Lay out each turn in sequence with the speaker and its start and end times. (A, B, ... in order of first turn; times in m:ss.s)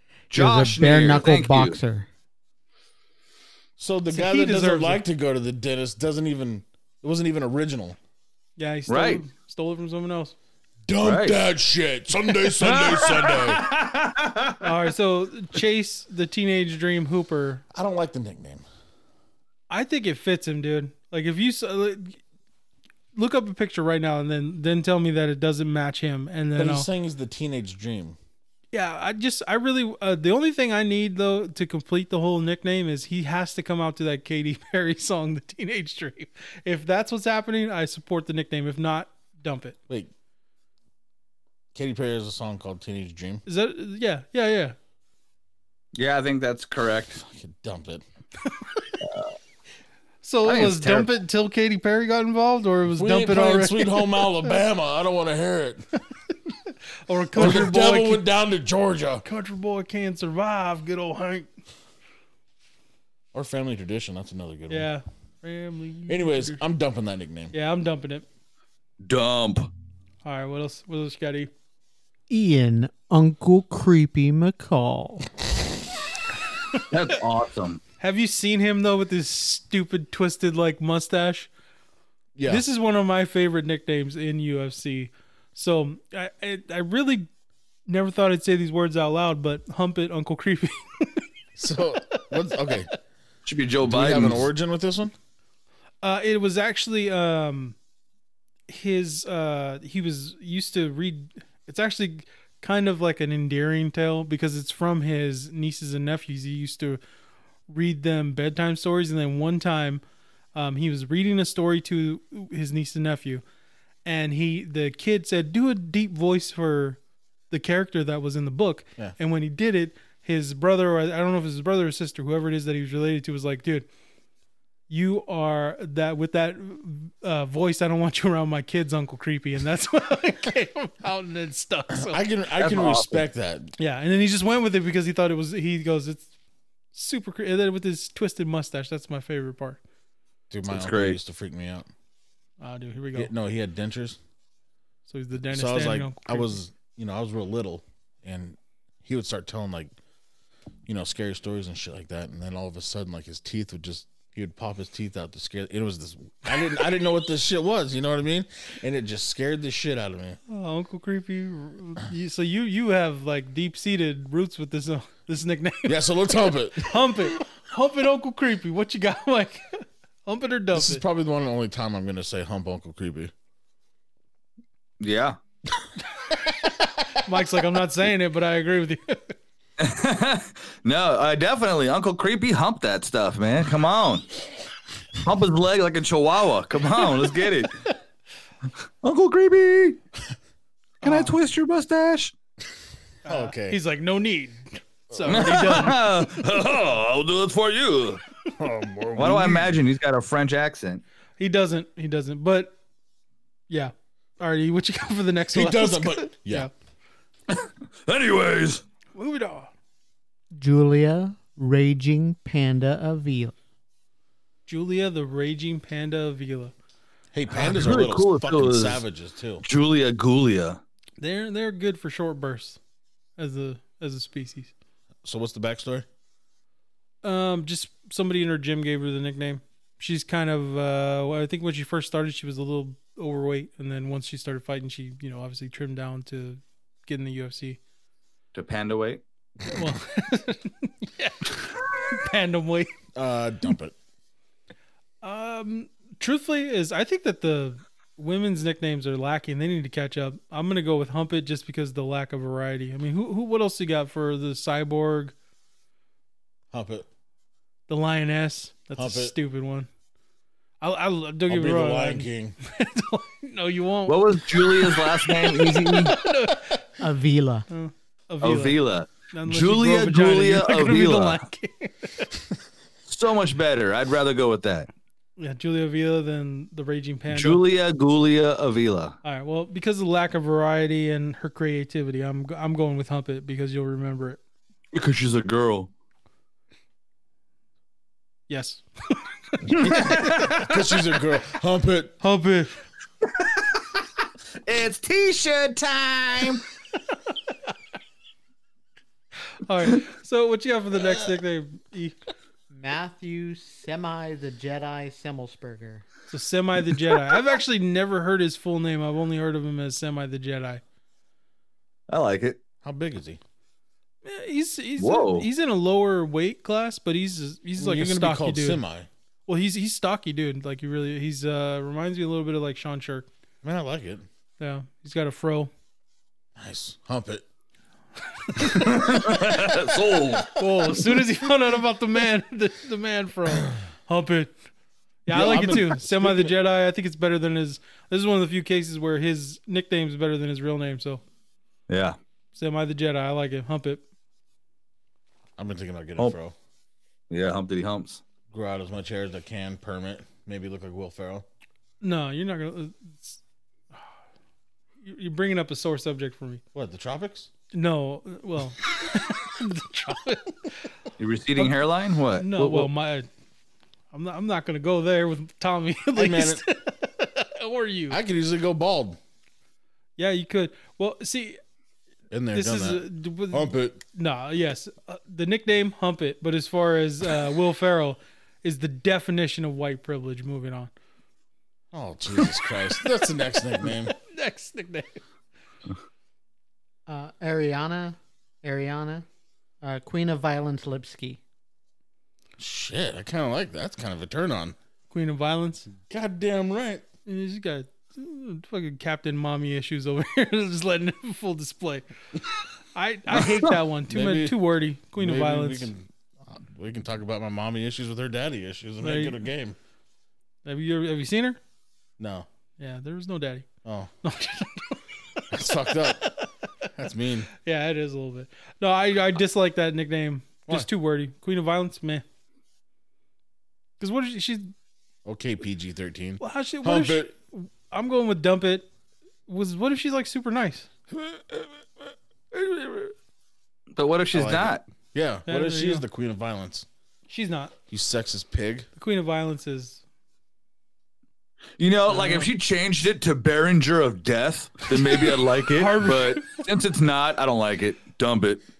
0:00.3-0:01.8 A
0:00.3-0:02.1 B
0:03.8-0:08.0 C
0:04.1-0:05.0 D
0:08.6-0:10.3 D
0:08.9-0:09.2 A
0:10.9-0:13.6 C
0:11.0-0:11.4 A
0:12.6-0:14.7 A
0:14.6-0:17.6 D
0:17.7-0:18.6 C
0:19.7-0:22.2 D
0:23.1-0:26.9 D
0:26.6-0:28.2 C
0:28.7-0:39.8 D
0:41.7-0:43.4 C
0:43.4-0:44.8 D
0:46.0-0:47.2 A
0:47.2-0:48.0 C
0:49.0-0:49.3 A
0:50.2-0:54.4 D
0:50.4-0:51.1 A
0:52.9-0:55.9 C
0:56.7-0:58.2 D
0:57.4-0:59.2 C
0:59.2-1:01.5 D
1:03.3-1:04.9 C
1:04.7-1:06.6 D
1:06.1-1:07.5 C
1:07.5-1:08.3 D
1:09.0-1:09.7 A
1:10.2-1:11.5 D
1:12.3-1:15.3 B
1:16.9-1:17.8 A
1:18.0-1:21.5 D
1:22.4-1:22.6 C
1:22.4-1:27.3 D
1:27.9-1:31.3 D
1:31.6-1:32.9 C
1:32.1-1:32.7 D
1:33.4-1:34.5 A
1:33.8-1:35.1 C
1:36.0-1:37.8 D
1:38.7-1:47.0 D
1:47.7-1:50.0 D
1:50.6-1:53.4 D
1:54.0-1:57.0 D
1:57.5-2:03.9 D
2:04.9-2:12.2 D
2:11.9-2:13.7 C
2:12.6-2:13.2 A
2:13.8-2:16.3 D
2:16.9-2:19.8 D
2:20.5-2:21.9 C
2:20.7-2:21.2 A
2:22.6-2:23.3 D
2:23.1-2:24.2 C
2:25.1-2:26.5 D
2:25.4-2:29.9 C
2:30.9-2:40.4 C
2:40.5-2:51.0 D
2:45.9-2:47.2 C
2:50.7-2:53.3 C
2:55.0-2:55.4 A
2:57.0-2:59.4 D
2:59.8-3:04.3 A
3:05.2-3:07.8 A
3:09.0-3:10.0 A
3:11.0-3:11.4 D
3:11.0-3:12.3 A
3:13.2-3:16.1 D
3:13.3-3:13.8 C
3:15.1-3:15.9 C
3:15.3-3:18.2 A
3:18.6-3:19.7 C
3:19.2-3:21.0 A
3:21.4-3:22.8 D
3:23.7-3:26.7 D
3:25.5-3:26.7 C
3:27.5-3:28.8 A
3:29.1-3:29.7 D
3:30.6-3:33.6 B
3:34.7-3:36.7 D
3:37.3-3:39.6 C
3:37.5-3:39.0 A
3:39.6-3:40.8 A
3:41.2-3:42.8 D
3:43.4-3:44.7 D
3:45.2-3:46.1 C
3:47.2-3:57.8 D
3:58.5-3:59.2 A
3:59.7-4:02.9 D
4:03.1-4:04.0 C
4:05.2-4:15.3 D
4:16.7-4:17.1 C
4:17.9-4:19.9 D
4:19.0-4:19.4 C
4:20.8-4:26.9 D
4:21.5-4:22.6 C
4:24.1-4:26.2 A
4:27.0-4:27.7 B
4:27.7-4:28.8 D
4:28.4-4:31.4 A
4:29.3-4:32.4 D
4:33.1-4:34.9 A
4:35.4-4:37.6 D
4:37.3-4:39.2 A
4:39.2-4:44.4 D
4:44.9-4:45.9 A
4:48.5-4:50.6 D
4:49.8-4:50.7 A
4:49.9-4:52.1 C
4:52.2-4:52.8 D
4:54.6-4:56.6 A
4:59.6-5:02.2 D
5:02.7-5:06.0 B
5:06.3-5:10.8 D
5:12.1-5:12.6 A
5:12.8-5:13.4 C
5:14.2-5:18.8 D
5:15.0-5:15.5 A
5:17.8-5:19.1 C
5:19.5-5:23.3 D
5:23.6-5:24.3 C
5:24.6-5:25.7 D
5:26.6-5:27.4 C
5:28.5-5:28.9 D
5:28.6-5:30.6 A
5:30.5-5:34.5 D
5:35.3-5:41.2 D
5:35.3-5:36.5 C
5:41.9-5:42.2 A
5:42.5-5:44.0 D
5:45.6-5:46.6 C
5:47.3-5:48.2 A
5:48.5-5:51.4 C
5:52.0-5:53.4 D
5:55.0-5:56.6 D
5:56.7-5:57.5 C
5:57.7-6:00.8 D
6:01.2-6:02.9 A
6:02.4-6:03.3 D
6:04.1-6:08.2 D
6:06.2-6:06.6 C
6:08.1-6:09.2 C
6:10.2-6:11.6 D
6:12.3-6:14.0 C
6:12.5-6:20.9 D
6:21.9-6:24.1 C
6:23.8-6:25.2 D
6:27.1-6:29.2 B
6:29.8-6:31.4 B
6:32.6-6:34.8 C
6:35.1-6:35.9 D
6:36.1-6:37.0 C
6:37.3-6:42.1 D
6:42.9-6:45.9 D
6:44.1-6:44.6 C
6:45.2-6:49.8 C
6:49.0-6:49.4 D
6:50.6-6:51.6 D
6:52.2-6:52.4 C
6:52.8-6:53.7 D
6:53.8-6:54.1 C
6:54.2-6:56.5 D
6:55.5-6:57.5 C
6:57.5-7:02.2 D
7:04.0-7:04.7 D
7:05.2-7:07.3 C
7:06.4-7:08.9 D
7:09.5-7:10.9 D
7:11.3-7:11.6 C
7:12.5-7:13.1 D
7:14.0-7:14.8 A
7:14.3-7:16.9 C
7:15.4-7:16.0 D
7:17.3-7:17.7 D
7:17.9-7:18.9 C
7:19.0-7:20.0 D
7:21.8-7:28.6 A
7:22.1-7:22.5 D
7:24.9-7:26.6 D